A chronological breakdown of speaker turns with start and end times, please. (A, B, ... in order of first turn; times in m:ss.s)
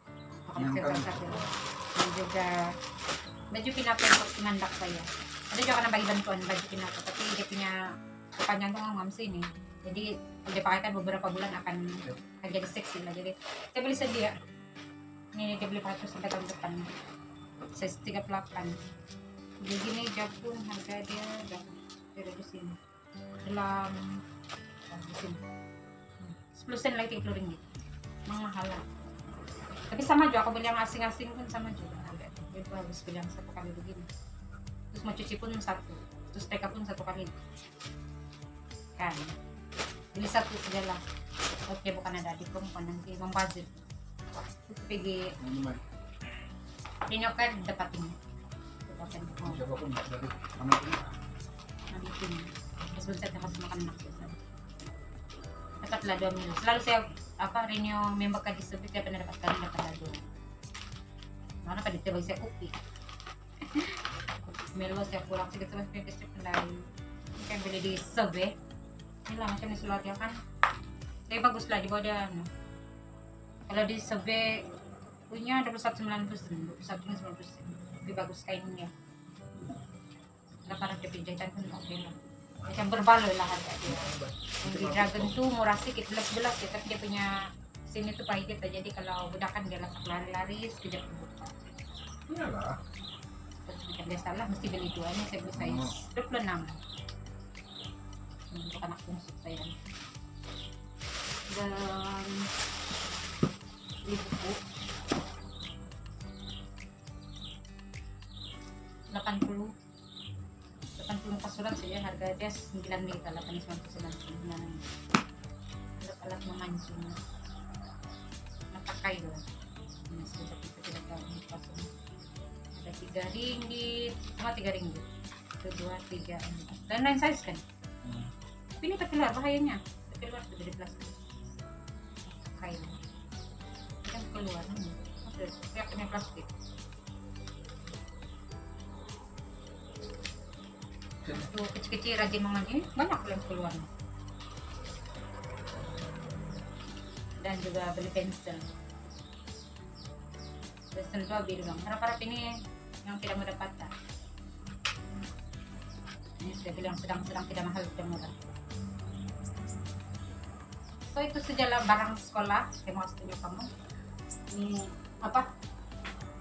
0:00.4-0:01.4 A
0:00.6-0:01.5 B
0:02.0-0:02.7 A
0:03.5-0:07.7 A
0:08.4-0:14.3 A
0:15.3-0:16.9 A
0:17.7-0:18.8 A
0:19.6-0:22.8 A
0:23.4-0:24.2 A
0:24.9-0:25.4 A
0:26.2-0:27.6 A
0:28.3-0:28.8 A
0:29.9-0:34.1 A
0:34.9-0:37.3 A
0:39.0-0:39.3 A
0:40.1-0:41.0 A
0:41.7-0:43.9 A
0:44.7-0:45.3 A
0:45.4-0:45.8 B
0:47.1-0:48.2 A
0:48.8-0:49.6 A
0:49.4-0:51.1 B
0:51.9-0:54.4 A
0:55.8-1:00.2 A
1:01.6-1:02.7 A
1:03.6-1:04.0 A
1:04.6-1:06.8 A
1:07.4-1:08.5 A
1:09.3-1:10.3 A
1:11.3-1:12.5 A
1:13.7-1:14.6 A
1:15.3-1:18.9 A
1:20.6-1:24.1 A
1:23.8-1:25.4 B
1:24.6-1:27.3 A
1:27.9-1:31.5 A
1:32.3-1:32.8 B
1:33.7-1:36.8 A
1:35.5-1:36.0 B
1:38.5-1:39.7 A
1:41.5-1:42.5 A
1:44.0-1:44.6 A
1:49.1-1:49.7 A
1:51.0-1:54.8 A
1:56.0-1:57.2 A
1:58.7-1:59.4 A
2:00.1-2:01.9 A
2:02.7-2:05.0 A
2:05.6-2:07.6 A
2:08.0-2:08.3 B
2:08.8-2:11.1 A
2:12.2-2:13.0 A
2:14.0-2:16.5 A
2:21.3-2:23.9 A
2:27.4-2:28.7 A
2:30.9-2:32.4 A
2:33.0-2:33.9 A
2:36.4-2:38.3 A
2:41.1-2:43.7 A
2:44.5-2:45.5 A